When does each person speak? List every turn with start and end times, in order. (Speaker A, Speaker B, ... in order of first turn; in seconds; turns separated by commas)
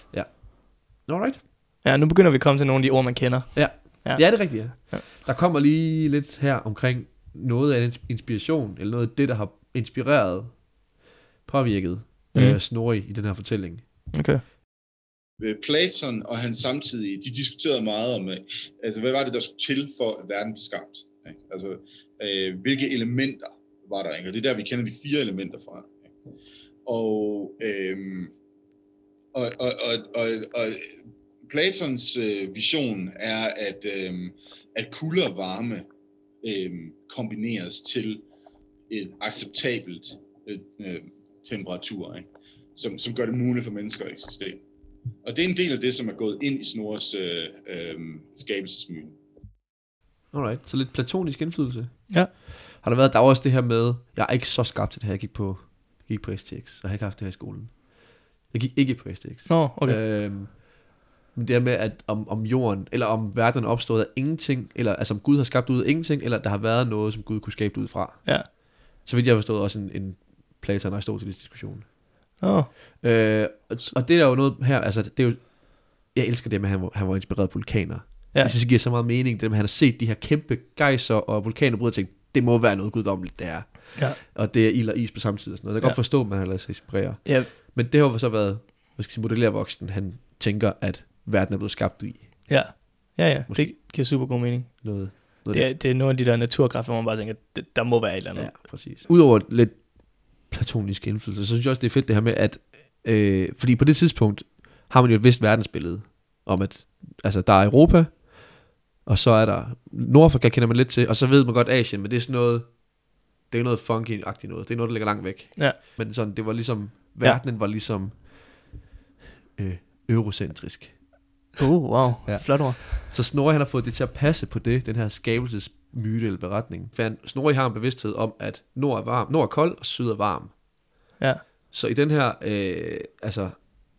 Speaker A: 0.1-1.4, Speaker B: 1.8-5.0, Speaker A: 3.5-10.7, Speaker A: 11.4-13.8, Speaker B: 12.3-12.6, Speaker B: 14.1-14.4, Speaker C: 15.4-26.0, Speaker C: 26.9-28.3, Speaker C: 29.3-35.9, Speaker C: 36.4-38.2, Speaker C: 38.9-44.6, Speaker C: 45.2-49.1, Speaker A: 50.3-57.9, Speaker A: 58.5-60.6, Speaker B: 59.5-60.0, Speaker A: 61.3-71.9, Speaker B: 72.4-72.7, Speaker A: 73.0-92.8, Speaker B: 87.2-87.5, Speaker B: 92.5-98.5, Speaker A: 93.5-93.7, Speaker A: 94.8-95.7, Speaker A: 98.4-108.3, Speaker A: 109.0-112.8, Speaker A: 113.4-118.7, Speaker A: 119.6-121.0, Speaker B: 121.6-122.8, Speaker A: 122.2-130.6, Speaker A: 131.7-133.6